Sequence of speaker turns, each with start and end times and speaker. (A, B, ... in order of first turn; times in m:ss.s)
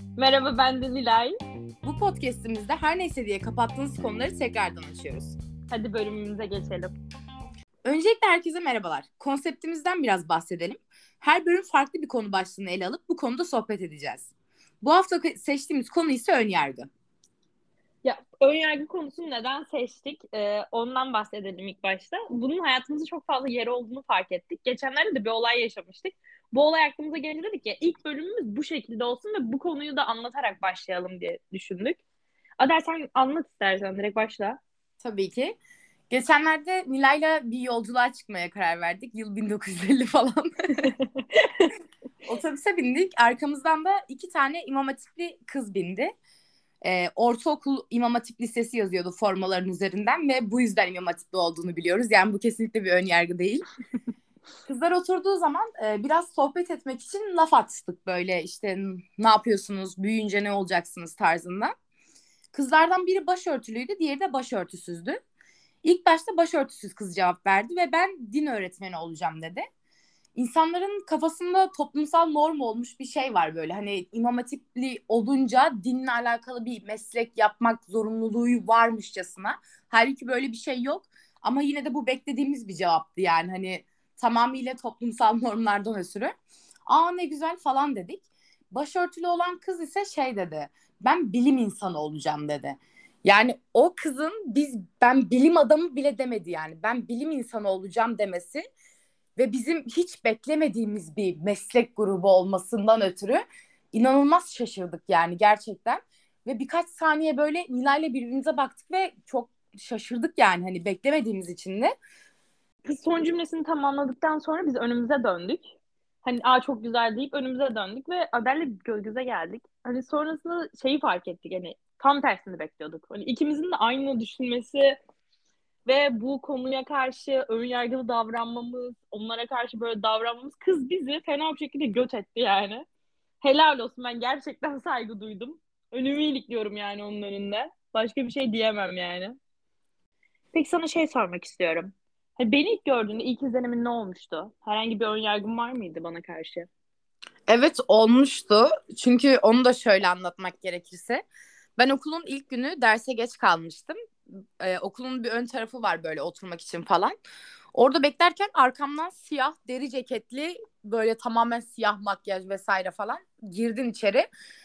0:00.2-0:01.4 A
0:01.8-0:05.4 B
0:05.7-0:07.0 A
0:07.8-0:14.3 B
0:14.8-0:16.9 B
0:18.0-0:32.0 A
0:32.6-0:34.6 A
0:35.0-0:35.6 B
0:36.1-0:40.5 B
0:41.4-0:41.7 A
0:42.3-0:46.1 B
0:46.8-0:53.6 B
0:54.7-1:01.7 B
1:02.5-1:05.2 B
1:05.8-1:09.7 B
1:10.4-1:26.3 B
1:26.9-1:38.6 B
1:39.4-1:43.4 B
1:43.9-1:51.9 B
1:52.8-1:55.7 A
1:56.2-2:05.0 A
2:05.9-2:12.9 A
2:13.4-2:19.4 A
2:20.5-2:26.7 A
2:27.5-2:31.2 B
2:31.8-2:34.0 B
2:34.6-2:37.2 B
2:37.7-2:44.3 B